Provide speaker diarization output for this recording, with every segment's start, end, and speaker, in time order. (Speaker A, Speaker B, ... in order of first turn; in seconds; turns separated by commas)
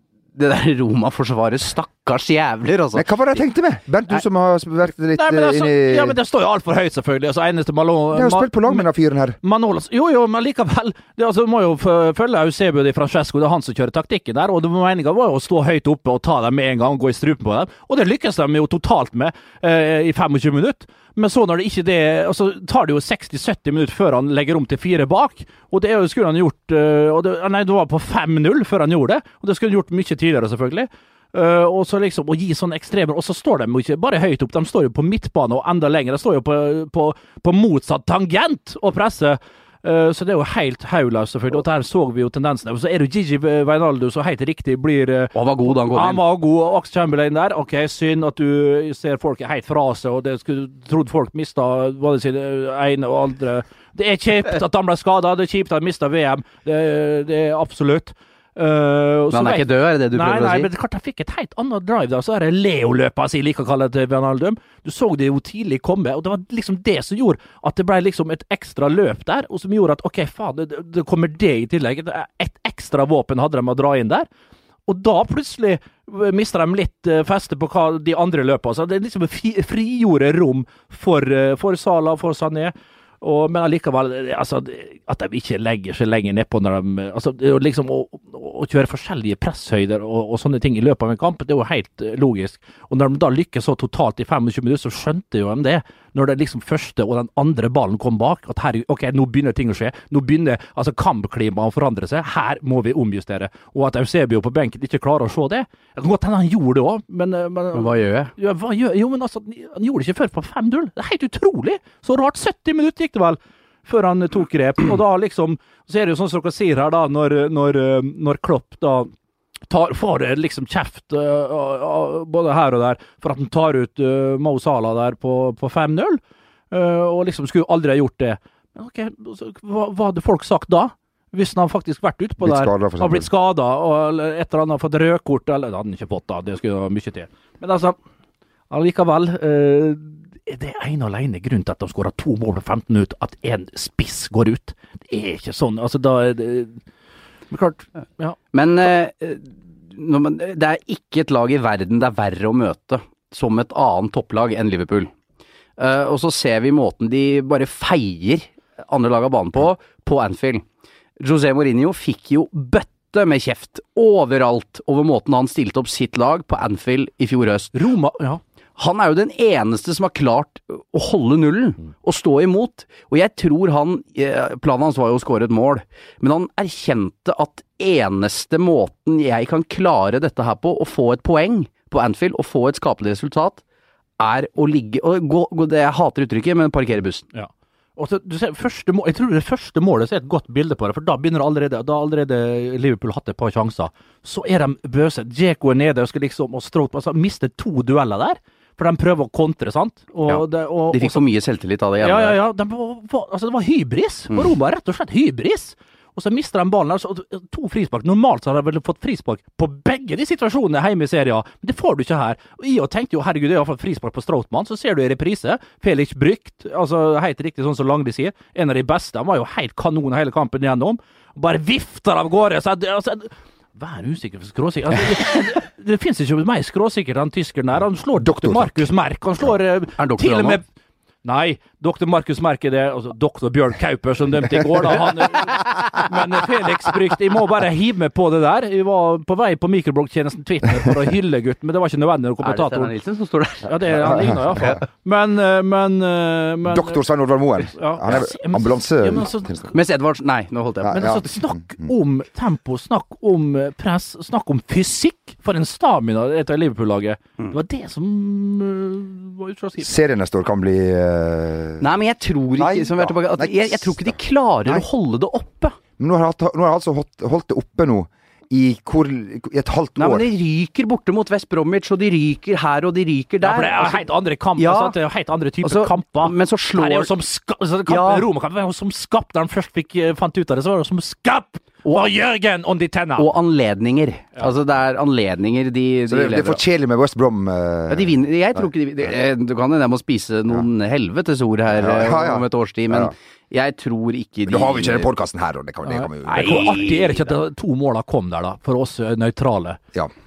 Speaker A: 0.3-3.4, Speaker B: 2.9-6.2, Speaker C: 5.1-8.9, Speaker B: 8.1-9.4, Speaker C: 9.4-74.3, Speaker A: 45.3-46.2, Speaker A: 59.3-60.7, Speaker C: 74.9-119.1, Speaker A: 107.7-108.3, Speaker C: 119.7-137.9, Speaker B: 132.4-133.3, Speaker C: 138.7-146.8, Speaker C: 147.5-148.3, Speaker A: 148.5-155.1, Speaker A: 155.8-160.6, Speaker A: 161.2-167.7, Speaker C: 167.7-168.4, Speaker A: 168.8-183.6, Speaker A: 184.2-187.2, Speaker C: 187.3-201.2, Speaker A: 200.3-202.4, Speaker C: 202.0-230.6, Speaker B: 228.2-228.9, Speaker A: 230.0-230.6, Speaker C: 231.2-242.9, Speaker A: 242.4-244.8, Speaker C: 243.6-247.0, Speaker B: 244.0-244.8, Speaker B: 246.7-249.7, Speaker C: 247.7-249.7, Speaker A: 249.7-251.3, Speaker B: 250.8-251.9, Speaker C: 250.9-259.9, Speaker B: 259.8-261.9, Speaker A: 261.8-265.8, Speaker B: 262.6-264.1, Speaker B: 266.0-270.3, Speaker A: 270.0-274.1, Speaker C: 273.4-283.3, Speaker A: 274.6-275.0, Speaker A: 275.6-277.1, Speaker A: 277.9-278.3, Speaker A: 283.2-286.6, Speaker B: 286.1-288.6, Speaker A: 287.9-295.1, Speaker B: 291.7-293.1, Speaker B: 294.5-296.8, Speaker C: 295.9-299.8, Speaker A: 296.2-297.3